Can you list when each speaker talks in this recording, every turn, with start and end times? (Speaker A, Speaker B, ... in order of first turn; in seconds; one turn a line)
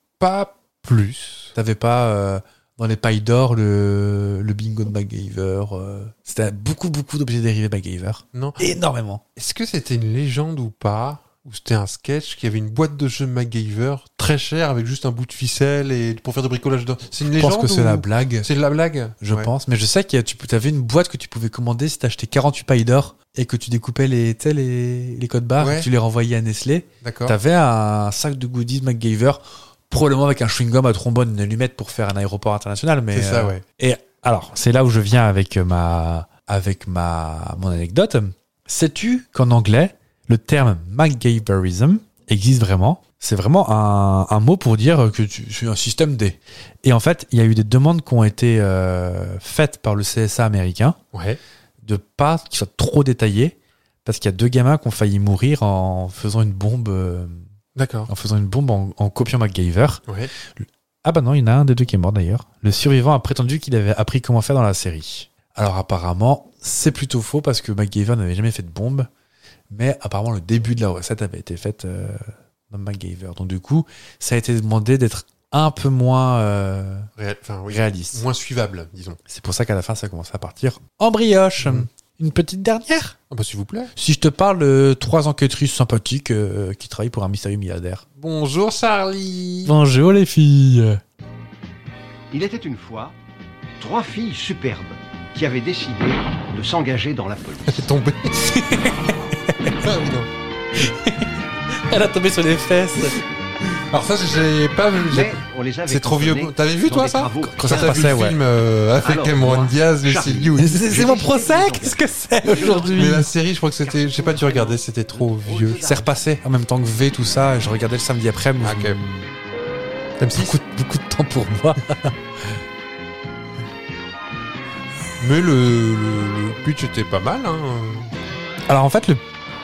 Speaker A: 0.2-1.6
Speaker B: 1.6-9.2
Speaker A: 8.3-8.6
Speaker A: 9.4-19.5
Speaker B: 17.4-18.5
Speaker B: 19.2-51.0
Speaker A: 25.6-25.9
Speaker A: 27.0-27.4
Speaker A: 33.1-33.6
Speaker A: 51.1-51.4
Speaker B: 51.8-57.4
Speaker A: 57.8-58.1
Speaker B: 58.1-60.0
Speaker A: 60.1-60.3
Speaker B: 61.0-69.1
Speaker B: 69.7-77.1
Speaker A: 77.2-79.2
Speaker B: 77.7-78.2
Speaker B: 79.3-83.2
Speaker A: 81.6-81.9
Speaker A: 83.3-83.9
Speaker B: 84.0-88.0
Speaker A: 88.2-89.7
Speaker B: 89.6-91.0
Speaker C: 92.3-93.2
Speaker C: 93.8-97.8
Speaker A: 97.7-98.5
Speaker B: 98.4-99.8
Speaker A: 99.8-100.3
Speaker B: 100.8-103.2
Speaker A: 103.9-110.9
Speaker C: 105.1-108.2
Speaker B: 107.4-108.4
Speaker C: 109.0-113.0
Speaker B: 110.6-113.3
Speaker A: 112.8-115.9
Speaker C: 113.8-116.1
Speaker B: 115.8-119.3
Speaker A: 118.6-119.0
Speaker A: 120.2-120.6
Speaker B: 120.3-122.6
Speaker A: 125.2-128.1
Speaker B: 128.7-129.2